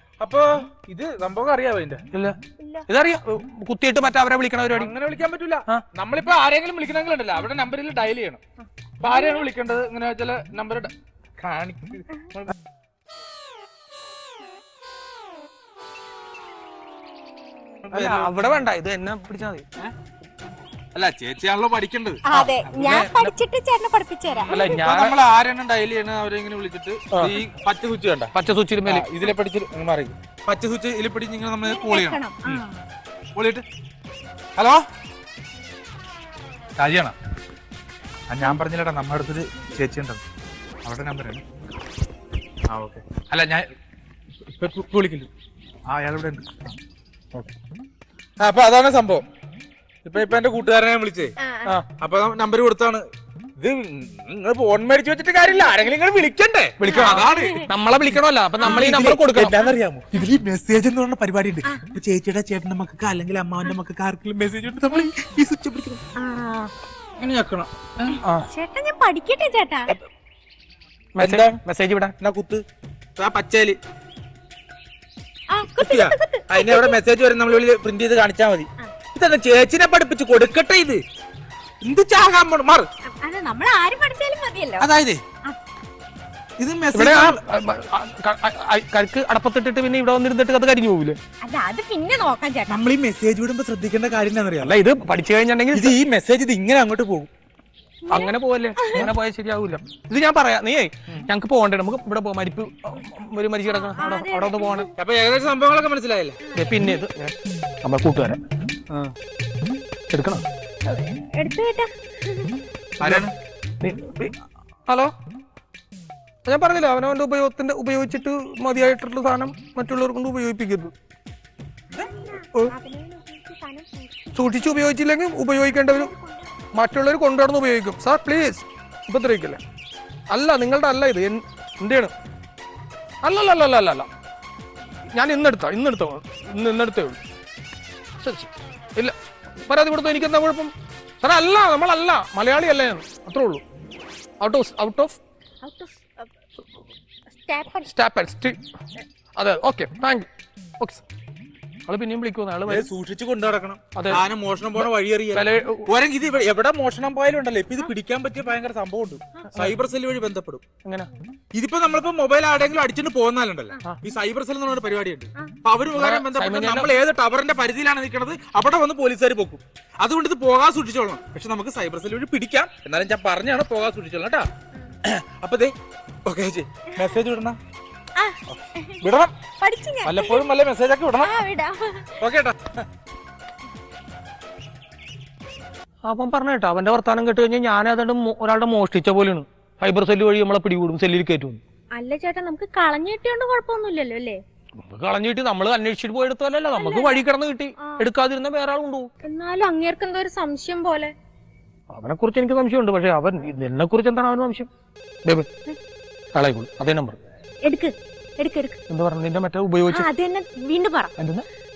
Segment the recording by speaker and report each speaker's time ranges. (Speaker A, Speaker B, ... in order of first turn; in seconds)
Speaker A: 0.2-2.0, 4.7-8.4, 9.0-12.5, 17.9-18.3, 20.9-23.3, 24.4-28.3, 28.9-32.6, 33.4-33.6, 34.6-34.8, 36.8-37.1, 38.3-40.2, 40.8-41.4, 42.7-43.7, 44.5-45.3, 45.9-46.8, 48.4-49.2, 50.0-51.3, 52.0-53.0, 53.6-66.0, 67.2-68.2, 71.2-71.6, 72.2-72.6, 73.2-73.8, 75.8-81.0, 81.8-82.9, 84.8-85.2, 86.6-87.4, 92.7-94.8, 95.7-97.3, 105.0-106.4, 113.0-113.3, 152.7-160.6, 161.5-174.5, 175.3-177.6, 178.5-179.3, 180.1-181.4, 182.2-182.9
Speaker B: 2.6-2.9, 9.1-9.5, 22.2-24.8, 31.6-32.8, 51.4-51.8, 56.9-57.7, 58.6-58.9, 61.6-61.9, 66.2-66.7, 68.5-69.9, 75.5-77.0, 83.2-84.9, 91.4-92.8, 98.1-99.1, 103.7-104.9, 106.4-107.0, 110.8-112.5, 121.9-124.8, 125.9-126.6, 145.6-146.3, 147.3-147.9, 178.2-180.5, 181.2-182.2, 191.9-194.4, 196.7-197.2, 197.8-198.1, 199.2-201.1, 207.6-208.8, 209.9-211.1
Speaker C: 2.9-4.9, 17.9-19.6, 22.3-22.6, 24.5-25.2, 27.1-27.4, 28.3-29.1, 56.8-59.6, 71.2-72.2, 86.9-91.2, 94.6-96.0, 98.1-104.9, 106.5-108.4, 110.1-110.4, 113.0-113.2, 113.8-114.3, 114.9-115.1, 116.5-120.9, 124.3-126.1, 126.7-129.6, 130.3-132.1, 133.2-134.1, 135.1-137.2, 138.2-143.6, 144.4-145.2, 147.7-148.6, 149.4-150.3, 151.9-152.9, 154.0-154.2, 154.8-155.9, 165.9-166.9, 186.1-191.6, 194.8-199.1, 201.9-204.7, 206.3-207.2, 208.9-210.1, 211.2-211.4